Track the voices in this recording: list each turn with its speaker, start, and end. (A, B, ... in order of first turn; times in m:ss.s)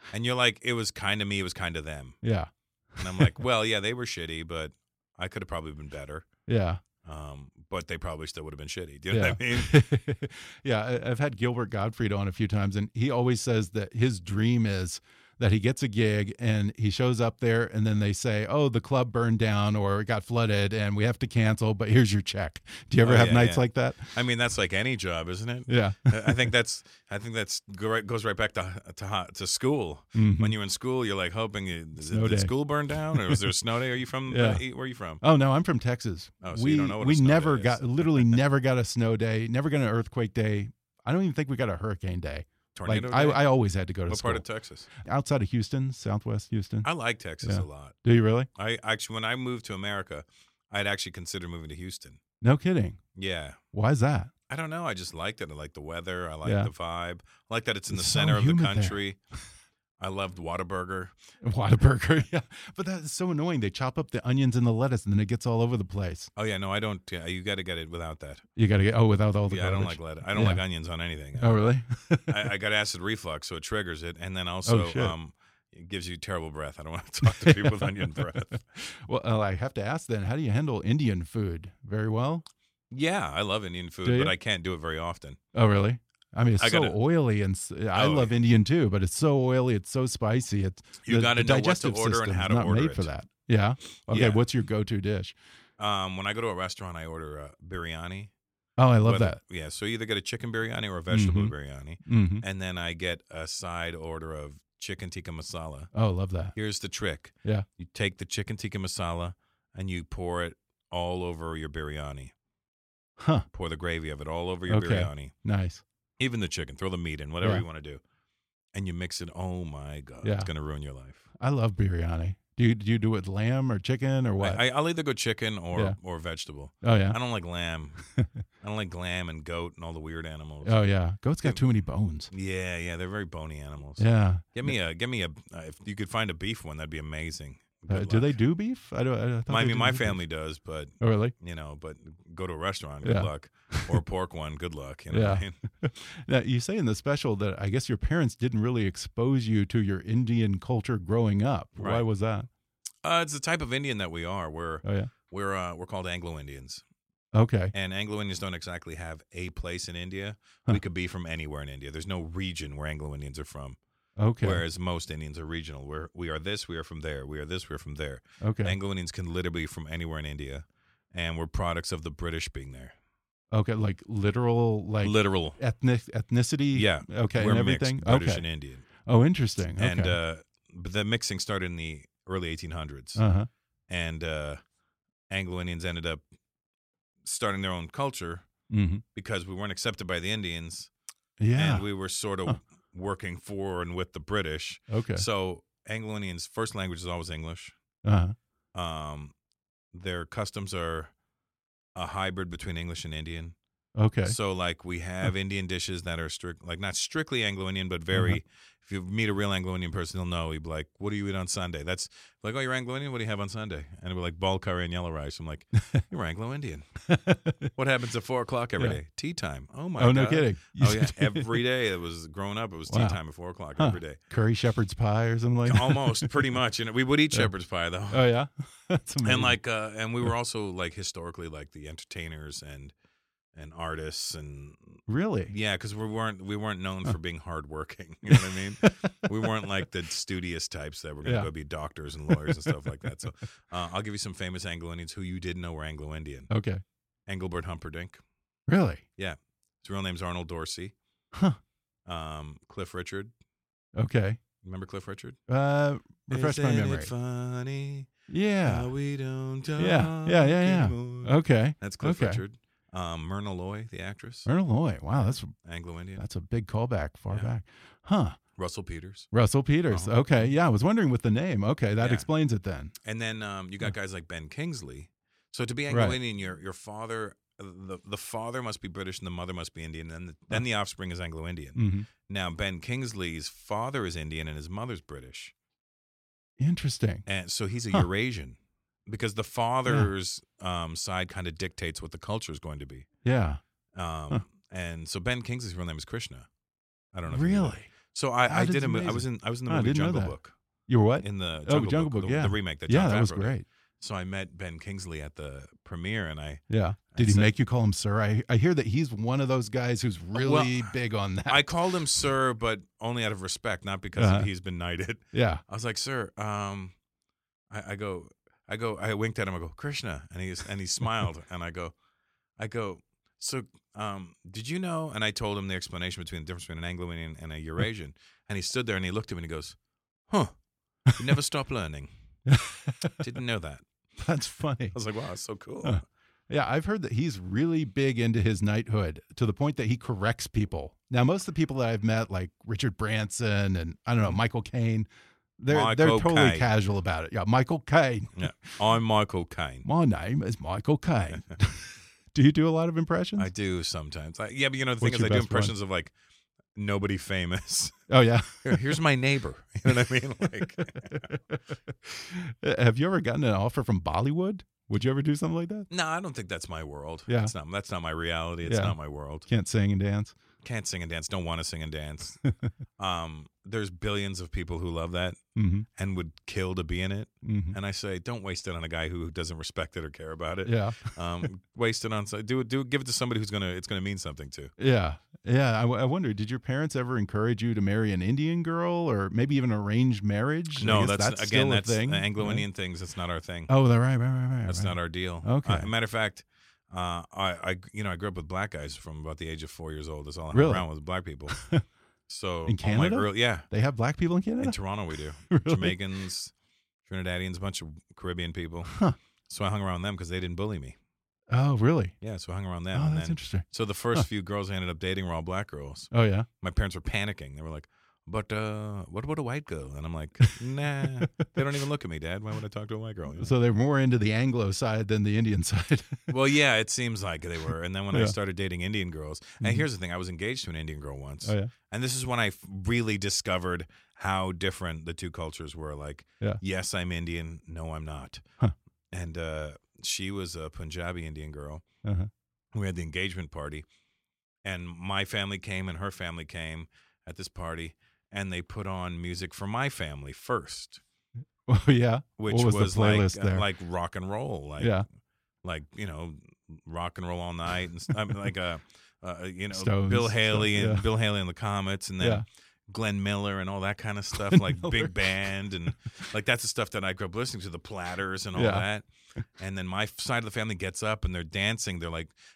0:00.1-0:02.2 A
0:02.2-0:03.3 B
0:03.0-0:06.3 A
0:06.5-0:06.8 B
0:07.0-0:09.8 A
0:09.1-0:24.2 B
0:23.0-0:35.2 A
0:25.7-0:26.4 B
0:30.1-0:30.5 B
0:32.0-0:32.5 B
0:33.1-0:33.4 B
0:34.3-0:34.6 B
0:35.2-0:46.9 B
0:36.4-0:38.4 A
0:42.7-0:43.4 A
0:44.1-0:44.9 A
0:46.8-0:47.9 A
0:47.4-0:48.5 B
0:48.5-0:52.2 A
0:52.4-0:53.0 B
0:53.1-0:53.6 A
0:53.7-0:54.3 B
0:54.5-0:59.2 A
0:56.4-0:56.7 B
0:57.9-0:59.0 B
1:00.0-1:01.1 A
1:01.4-1:06.3 B
1:06.4-1:08.4 A
1:08.6-1:10.6 B
1:09.5-1:11.6 A
1:11.4-1:12.4 B
1:12.3-1:18.6 A
1:14.6-1:15.1 B
1:17.2-1:22.4 B
1:22.9-1:25.4 A
1:24.0-1:24.3 B
1:25.5-1:35.4 B
1:26.6-1:27.0 A
1:27.9-1:28.4 A
1:31.0-1:33.1 A
1:34.1-1:34.4 A
1:35.8-1:38.3 A
1:38.8-1:39.4 B
1:39.0-1:45.9 A
1:41.1-1:42.4 B
1:45.9-1:46.5 B
1:46.5-1:52.3 A
1:53.2-1:53.4 B
1:53.5-1:55.3 A
1:54.7-1:55.8 B
1:56.2-1:58.0 A
1:58.7-2:01.3 A
2:00.2-2:00.5 B
2:01.4-2:04.6 B
2:04.4-2:08.0 A
2:06.8-2:07.2 B
2:08.6-2:10.9 A
2:10.6-2:12.3 B
2:12.3-2:18.3 A
2:14.0-2:14.7 B
2:17.9-2:20.2 B
2:19.5-2:25.6 A
2:21.0-2:21.3 B
2:23.0-2:24.0 B
2:25.1-2:32.5 B
2:31.8-2:32.0 A
2:33.0-2:36.8 A
2:34.8-2:35.1 B
2:37.3-2:37.7 B
2:37.7-2:43.8 A
2:44.2-2:44.6 B
2:44.4-2:52.9 A
2:48.4-2:48.8 B
2:53.5-2:58.4 B
2:55.0-2:55.6 A
2:56.7-2:58.8 A
2:59.0-3:00.2 B
2:59.8-3:03.2 A
3:03.2-3:03.5 B
3:03.9-3:04.6 A
3:05.3-3:06.2 A
3:07.2-3:08.4 A
3:08.7-3:09.0 B
3:09.1-3:10.9 A
3:11.4-3:11.8 B
3:11.5-3:17.8 A
3:14.9-3:15.2 B
3:18.0-3:18.4 B
3:18.7-3:19.3 A
3:19.9-3:21.1 A
3:21.9-3:23.5 A
3:24.0-3:24.4 B
3:24.2-3:36.9 A
3:28.1-3:28.4 B
3:37.1-3:37.7 B
3:37.7-3:44.2 A
3:40.0-3:41.6 B
3:42.9-3:43.2 B
3:43.8-3:46.3 B
3:45.6-3:48.3 A
3:48.1-3:49.6 B
3:49.2-3:52.9 A
3:53.5-4:06.5 A
3:55.1-3:55.5 B
3:58.3-3:59.3 B
4:01.2-4:01.5 B
4:02.3-4:02.7 B
4:06.5-4:06.8 B
4:07.3-4:08.2 A
4:08.7-4:09.0 B
4:09.2-4:10.9 A
4:11.3-4:11.6 B
4:12.0-4:13.3 A
4:14.0-4:14.4 B
4:14.6-4:15.4 A
4:15.5-4:17.1 B
4:16.3-4:18.1 A
4:18.3-4:18.9 B
4:18.6-4:24.5 A
4:19.8-4:22.4 B
4:24.4-4:25.5 B
4:25.2-4:26.2 A
4:26.2-4:28.4 B
4:28.6-4:29.3 A
4:29.3-4:32.9 B
4:29.9-4:30.5 A
4:32.0-4:32.3 A
4:33.0-4:45.5 A
4:35.9-4:36.2 B
4:41.7-4:42.1 B
4:46.6-4:47.2 B
4:47.2-4:53.1 A
4:53.2-4:53.6 B
4:53.9-4:56.5 A
4:57.1-5:00.5 A
4:57.3-4:57.9 B
4:58.5-5:00.4 B
5:00.9-5:03.6 B
5:01.2-5:07.5 A
5:06.7-5:11.6 B
5:10.3-5:10.9 A
5:11.4-5:16.9 A
5:14.2-5:14.5 B
5:15.3-5:15.6 B
5:17.7-5:21.9 A
5:22.6-5:29.8 A
5:30.3-5:30.5 A
5:31.1-5:32.1 A
5:32.5-5:33.2 B
5:33.2-5:33.8 A
5:34.2-5:35.0 B
5:34.9-5:36.0 A
5:35.8-5:45.1 B
5:45.6-5:48.7 B
5:45.7-5:46.7 A
5:48.3-5:49.8 A
5:49.8-5:53.5 B
5:53.4-5:56.1 A
5:55.0-5:55.7 B
5:56.7-5:58.0 A
5:58.1-5:58.8 B
5:58.6-6:01.4 A
6:00.8-6:05.9 B
6:05.9-6:09.5 A
6:07.3-6:07.5 B
6:08.6-6:09.0 B
6:09.5-6:10.3 B
6:10.6-6:12.4 A
6:13.0-6:15.4 A
6:15.5-6:15.8 B
6:16.0-6:24.7 A
6:17.4-6:17.8 B
6:20.6-6:21.1 B
6:24.8-6:32.7 B
6:30.8-6:33.7 A
6:33.7-6:35.9 B
6:34.6-6:41.6 A
6:40.5-6:40.8 B
6:41.5-6:41.8 B
6:42.3-6:43.7 A
6:42.6-6:44.8 B
6:44.6-6:46.5 A
6:45.5-6:46.0 B
6:47.0-6:51.0 A
6:48.9-6:49.2 B
6:51.5-6:52.2 B
6:52.2-7:03.5 A
6:52.9-6:54.2 B
6:56.1-6:56.5 B
7:03.4-7:06.3 B
7:06.3-7:18.4 A
7:09.6-7:09.8 B
7:11.4-7:11.7 B
7:19.1-7:21.8 A
7:22.0-7:22.3 B
7:22.7-7:23.8 A
7:24.6-7:31.0 A
7:31.7-7:33.6 B
7:32.4-7:35.0 A
7:34.8-7:35.0 B
7:35.6-7:49.1 A
7:39.7-7:41.0 B
7:42.2-7:42.4 B
7:44.3-7:45.2 B
7:48.5-7:48.8 B
7:49.6-7:52.3 A